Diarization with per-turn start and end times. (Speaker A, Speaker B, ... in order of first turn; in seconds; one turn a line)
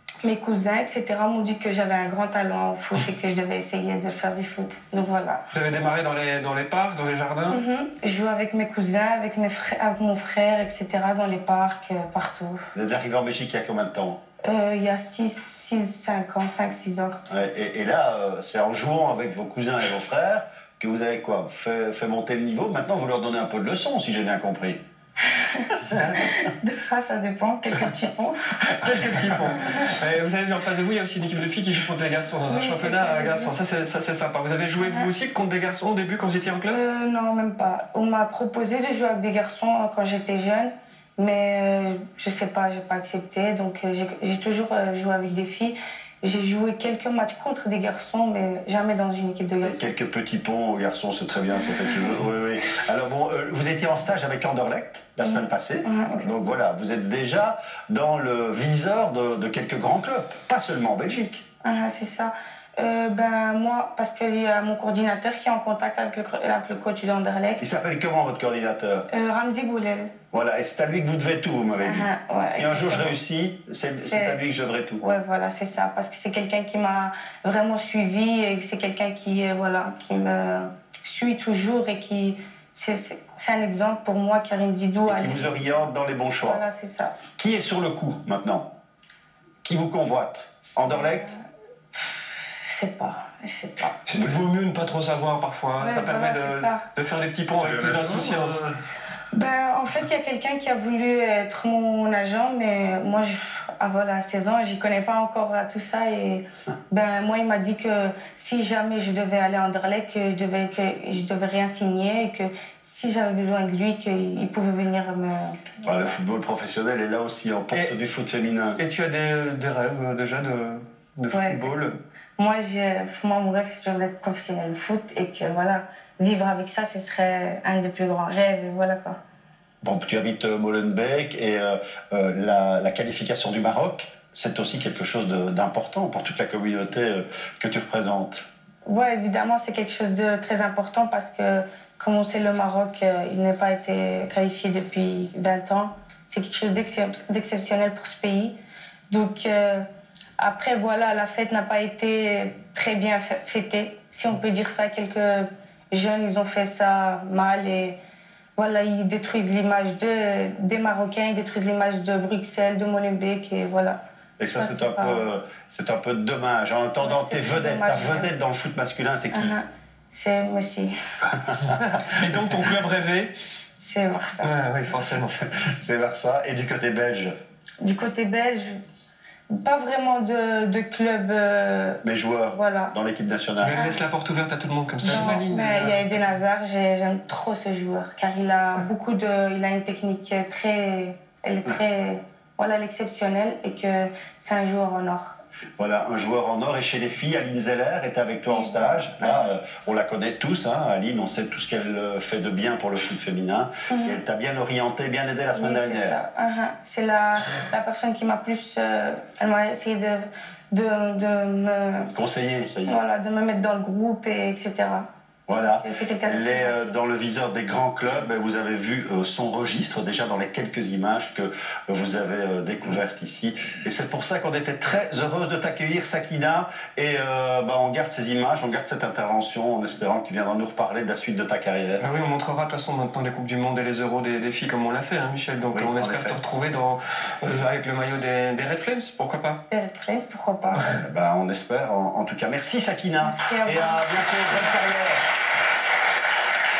Speaker A: 0.2-5.5
Speaker B: 5.5-7.6
Speaker A: 7.5-12.6
Speaker C: 12.7-14.2
Speaker A: 14.4-17.4
Speaker C: 17.3-24.8
Speaker A: 25.3-28.7
Speaker B: 28.7-36.8
Speaker A: 29.6-29.9
Speaker A: 32.5-33.5
Speaker A: 34.8-35.1
Speaker A: 36.7-49.8
Speaker C: 49.6-61.4
Speaker A: 55.2-56.4
Speaker A: 61.6-67.6
Speaker C: 67.6-69.1
Speaker A: 69.1-70.1
Speaker C: 70.3-75.0
Speaker A: 71.8-73.2
Speaker A: 73.9-74.4
Speaker A: 75.0-85.8
Speaker C: 85.0-86.6
Speaker A: 86.4-87.2
Speaker C: 87.3-88.7
Speaker C: 89.6-91.3
Speaker A: 90.9-91.3
Speaker A: 91.9-94.1
Speaker B: 94.0-98.6
Speaker A: 95.8-96.8
Speaker C: 97.6-98.8
Speaker A: 99.3-116.1
Speaker C: 115.8-118.8
Speaker B: 118.8-122.0
Speaker A: 121.3-121.8
Speaker A: 122.4-129.2
Speaker C: 129.8-138.4
Speaker A: 138.8-148.5
Speaker A: 149.1-149.8
Speaker A: 150.4-158.0
Speaker A: 158.6-164.0
Speaker C: 164.4-169.5
Speaker A: 164.5-165.2
Speaker A: 167.0-168.3
Speaker A: 169.3-170.9
Speaker C: 171.3-172.0
Speaker B: 171.8-173.3
Speaker A: 173.8-174.5
Speaker B: 174.4-175.3
Speaker C: 175.3-177.3
Speaker A: 177.8-178.8
Speaker A: 179.5-182.9
Speaker C: 182.0-183.8
Speaker B: 183.6-186.2
Speaker A: 183.7-184.1
Speaker A: 185.0-195.3
Speaker C: 195.8-206.2
Speaker A: 198.5-199.5
Speaker A: 203.9-204.2
Speaker A: 205.5-212.1
Speaker C: 212.1-212.9
Speaker A: 212.8-215.1
Speaker C: 215.5-232.0
Speaker A: 215.6-216.9
Speaker B: 232.0-239.6
Speaker C: 235.7-236.4
Speaker A: 239.7-241.0
Speaker C: 240.7-245.3
Speaker A: 243.2-244.7